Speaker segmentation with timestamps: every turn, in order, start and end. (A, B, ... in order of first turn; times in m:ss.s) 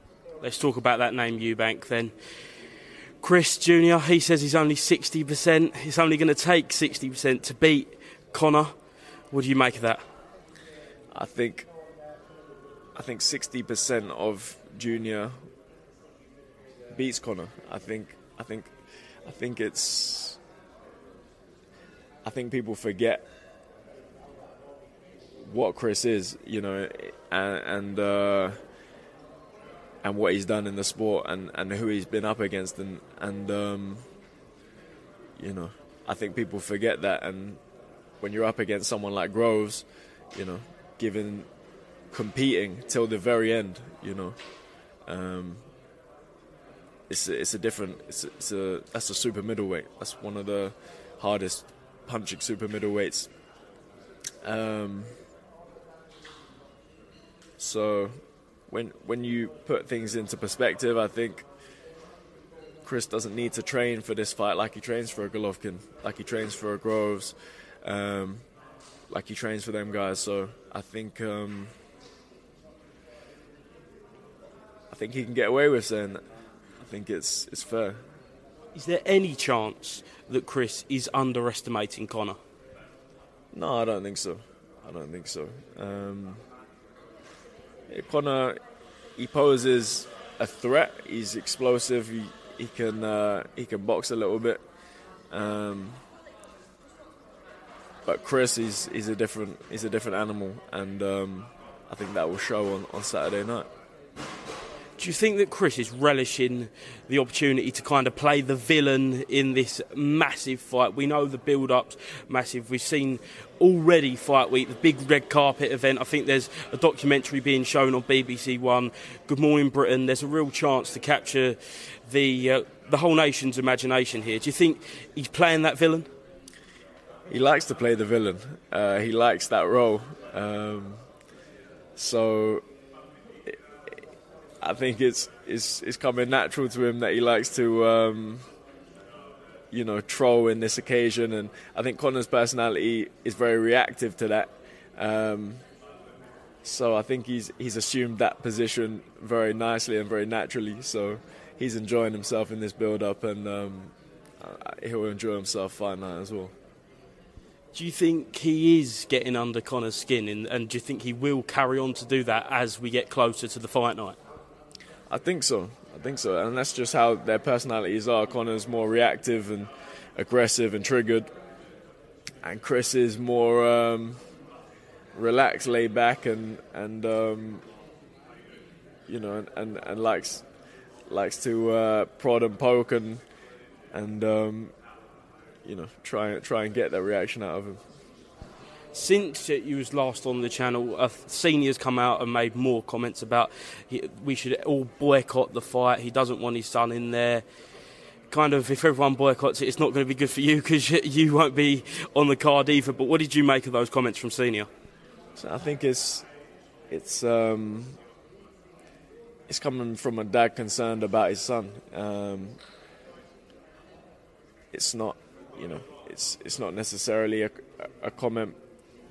0:00.4-0:02.1 A
0:03.2-0:08.7 A
0:09.3-0:10.0 A
0:11.1-0:11.7 B
0:12.9-0:15.4 B
0:16.9-0:18.7 B
0:19.2-0:20.4 B
0:22.2-0:23.2 B
0:25.4-0:28.6 B
0:30.0-0:34.0 B
0:35.4-0:37.6 B
0:38.2-0:41.5 B
0:42.1-0:44.4 B
0:45.1-0:45.6 B
0:47.1-0:53.3 B
0:54.4-0:55.1 B
0:57.6-0:58.2 B
0:58.7-1:01.5 B
1:02.8-1:08.4 B
1:09.1-1:11.7 B
1:14.9-1:16.2 B
1:16.8-1:18.0 B
1:18.7-1:22.4 A
1:23.5-1:26.4 B
1:27.9-1:28.6 B
1:29.2-1:34.6 B
1:35.3-1:36.0 B
1:38.0-1:43.7 B
1:45.0-2:06.1 A
2:07.3-2:11.0 B
2:12.0-2:12.6 B
2:14.6-2:18.4 B
2:19.7-2:25.6 B
2:26.6-2:36.5 B
2:37.7-2:44.2 A
2:45.1-2:51.3 B
2:52.4-2:54.2 B
2:55.1-2:57.6 B
2:59.1-3:00.4 B
3:01.1-3:03.2 B
3:03.9-3:04.7 B
3:05.6-3:07.8 B
3:08.9-3:17.4 A
3:18.3-3:24.7 A
3:25.4-3:26.3 B
3:26.9-3:28.0 B
3:29.5-3:32.6 B
3:34.7-3:38.6 B